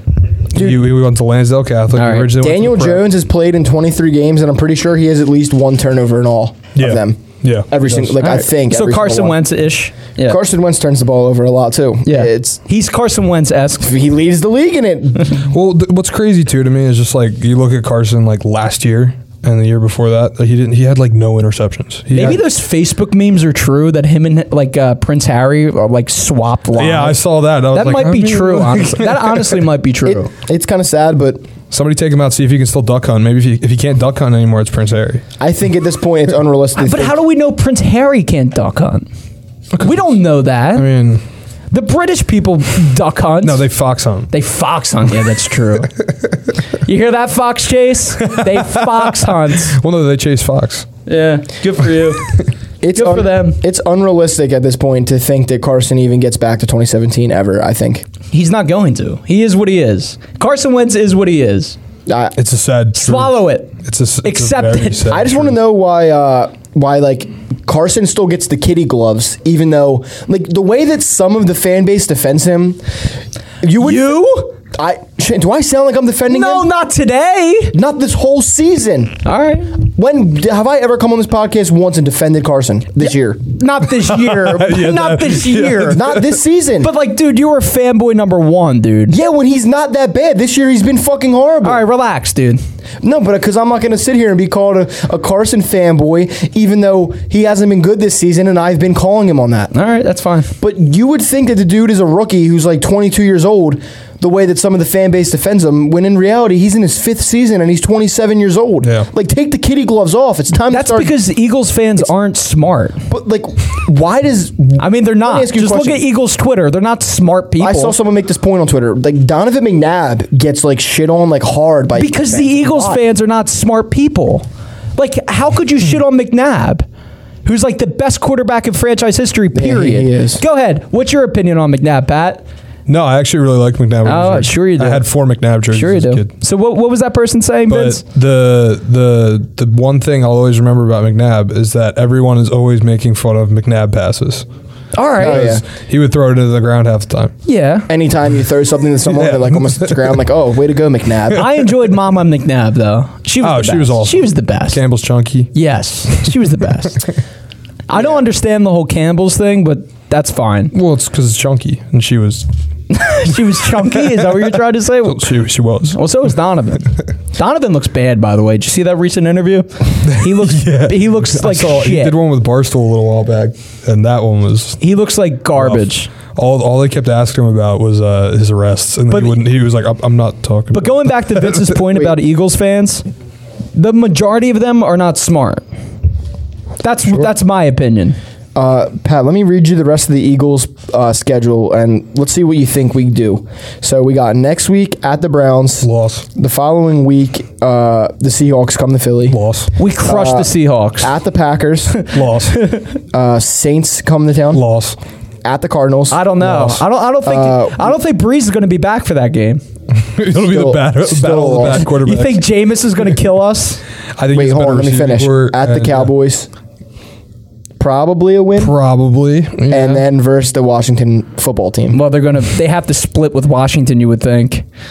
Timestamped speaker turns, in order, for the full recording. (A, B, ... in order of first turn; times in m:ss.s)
0:00.5-0:03.1 A
0:01.9-0:02.3 B
0:02.4-0:09.4 C
0:06.8-0:08.2 A
0:08.2-0:10.4 B
0:10.2-0:12.6 C
0:12.0-0:13.9 B
0:13.8-0:15.5 C
0:15.4-0:22.4 A
0:22.1-0:27.2 B
0:26.8-0:29.6 A
0:27.7-0:30.3 B
0:30.0-0:31.4 C
0:31.7-0:35.2 A
0:35.4-0:37.2 C
0:36.8-0:39.1 B
0:39.8-0:40.1 A
0:39.8-0:40.9 B
0:40.7-0:41.2 A
0:41.7-0:43.6 B
0:43.4-0:44.3 A
0:44.3-0:45.9 B
0:46.8-0:49.8 B
0:48.2-0:50.9 A
0:51.1-0:52.3 B
0:52.8-0:58.1 C
0:52.9-0:53.6 B
0:58.3-1:01.8 B
1:02.1-1:02.4 C
1:02.4-1:05.6 A
1:02.9-1:05.1 B
1:05.1-1:12.8 C
1:13.6-1:16.7 C
1:13.8-1:14.5 B
1:16.3-1:17.8 B
1:17.7-1:23.4 C
1:19.2-1:19.8 B
1:23.0-1:26.1 B
1:24.0-1:26.3 A
1:25.9-1:26.9 C
1:26.8-1:29.2 B
1:29.1-1:31.8 C
1:31.6-1:32.6 B
1:33.0-1:39.7 C
1:39.7-1:40.5 B
1:40.6-1:51.2 C
1:50.7-1:53.0 B
1:53.1-1:56.0 C
1:54.8-1:58.0 B
1:57.6-2:03.0 C
2:02.0-2:04.5 B
2:05.0-2:06.8 B
2:07.4-2:12.4 B
2:09.5-2:10.4 C
2:12.9-2:16.3 A
2:14.0-2:15.0 B
2:15.7-2:18.0 B
2:17.7-2:24.5 A
2:24.9-2:25.6 B
2:25.2-2:25.6 C
2:25.2-2:27.3 A
2:27.5-2:27.9 B
2:27.9-2:31.5 C
2:29.1-2:30.2 A
2:31.3-2:34.8 B
2:33.4-2:35.5 A
2:35.5-2:37.1 B
2:37.9-2:40.7 B
2:40.7-2:42.5 A
2:42.9-2:45.3 B
2:43.6-2:46.0 A
2:45.9-2:52.2 B
2:50.1-2:54.8 A
2:54.8-2:56.1 B
2:55.6-3:01.8 A
2:59.1-2:59.4 B
3:00.7-3:03.0 B
3:03.8-3:05.6 B
3:06.8-3:08.2 B
3:08.6-3:19.4 C
3:15.8-3:16.3 A
3:19.3-3:19.7 A
3:19.8-3:21.1 B
3:20.0-3:22.0 C
3:22.0-3:22.9 B
3:22.1-3:22.7 A
3:23.1-3:24.6 C
3:24.5-3:25.0 A
3:25.4-3:26.7 C
3:26.1-3:29.6 B
3:26.5-3:26.8 A
3:27.2-3:28.0 C
3:30.0-3:32.4 A
3:30.3-3:31.9 C
3:31.8-3:33.8 B
3:34.2-3:36.1 A
3:34.3-3:36.5 C
3:37.8-3:38.8 C
3:38.6-3:40.0 A
3:39.7-3:42.0 C
3:41.9-3:44.6 B